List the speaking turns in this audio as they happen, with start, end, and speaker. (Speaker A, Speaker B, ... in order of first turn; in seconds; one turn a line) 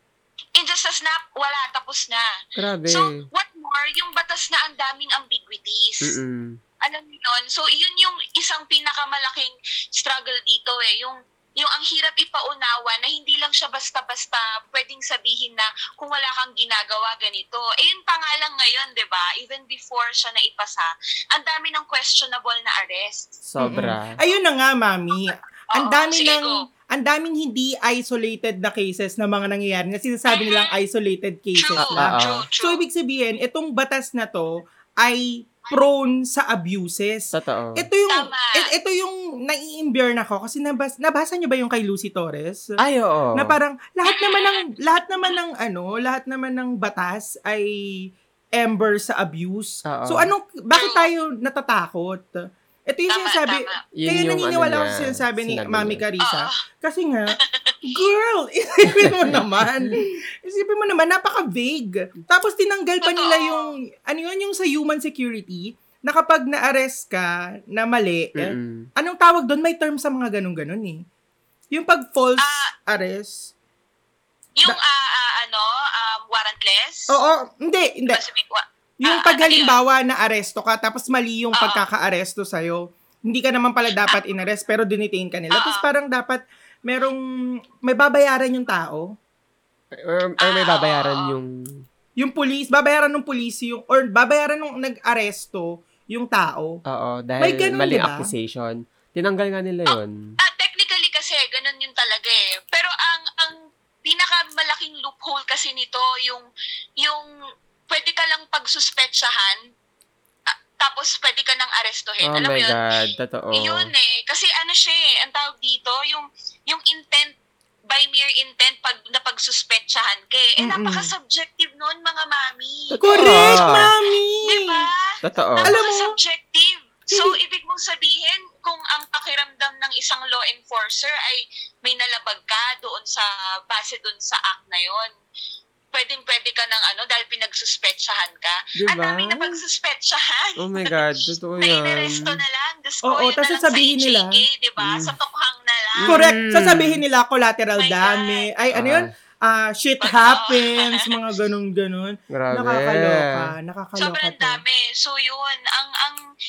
Speaker A: 0.6-2.2
Speaker B: 2.6-3.2
Speaker A: 2.9-6.2
Speaker B: 6.0-6.6
Speaker A: 6.8-23.4
Speaker B: 23.4-24.1
Speaker C: 23.6-42.8
Speaker A: 25.8-26.6
Speaker A: 30.3-30.8
Speaker A: 31.6-32.8
Speaker B: 31.8-32.5
Speaker B: 37.3-37.8
Speaker A: 38.1-38.7
Speaker B: 42.8-43.6
Speaker C: 43.4-71.0
Speaker A: 44.0-44.7
Speaker B: 49.9-50.3
Speaker A: 50.7-51.1
Speaker A: 53.1-53.8
Speaker B: 54.0-56.0
Speaker A: 56.2-56.6
Speaker A: 57.4-57.8
Speaker A: 63.0-63.7
Speaker B: 68.4-68.9
Speaker C: 71.7-73.5
Speaker A: 72.4-72.7
Speaker A: 74.6-77.2
Speaker C: 77.1-78.2
Speaker A: 78.1-79.8
Speaker C: 79.0-87.2
Speaker A: 81.5-81.9
Speaker A: 85.5-85.9
Speaker C: 87.8-89.1
Speaker B: 89.9-91.8
Speaker A: 90.4-91.3
Speaker C: 92.2-96.7
Speaker B: 96.9-100.3
Speaker C: 97.4-98.3
Speaker A: 99.9-106.5
Speaker A: 107.0-107.3
Speaker A: 107.9-109.6
Speaker A: 110.5-112.8
Speaker B: 112.2-113.9
Speaker A: 113.5-117.4
Speaker A: 117.9-125.0
Speaker C: 120.6-121.1
Speaker C: 123.0-124.8
Speaker B: 123.2-123.9
Speaker B: 125.2-125.8
Speaker A: 125.6-135.1
Speaker C: 125.7-126.1
Speaker A: 135.9-146.2
Speaker B: 138.8-139.5
Speaker B: 140.6-142.4
Speaker C: 143.0-144.4
Speaker B: 144.8-145.2
Speaker B: 146.0-147.0
Speaker C: 146.1-154.6
Speaker A: 147.8-148.5
Speaker B: 148.7-149.1
Speaker A: 150.0-151.2
Speaker B: 152.3-153.5
Speaker A: 154.0-156.2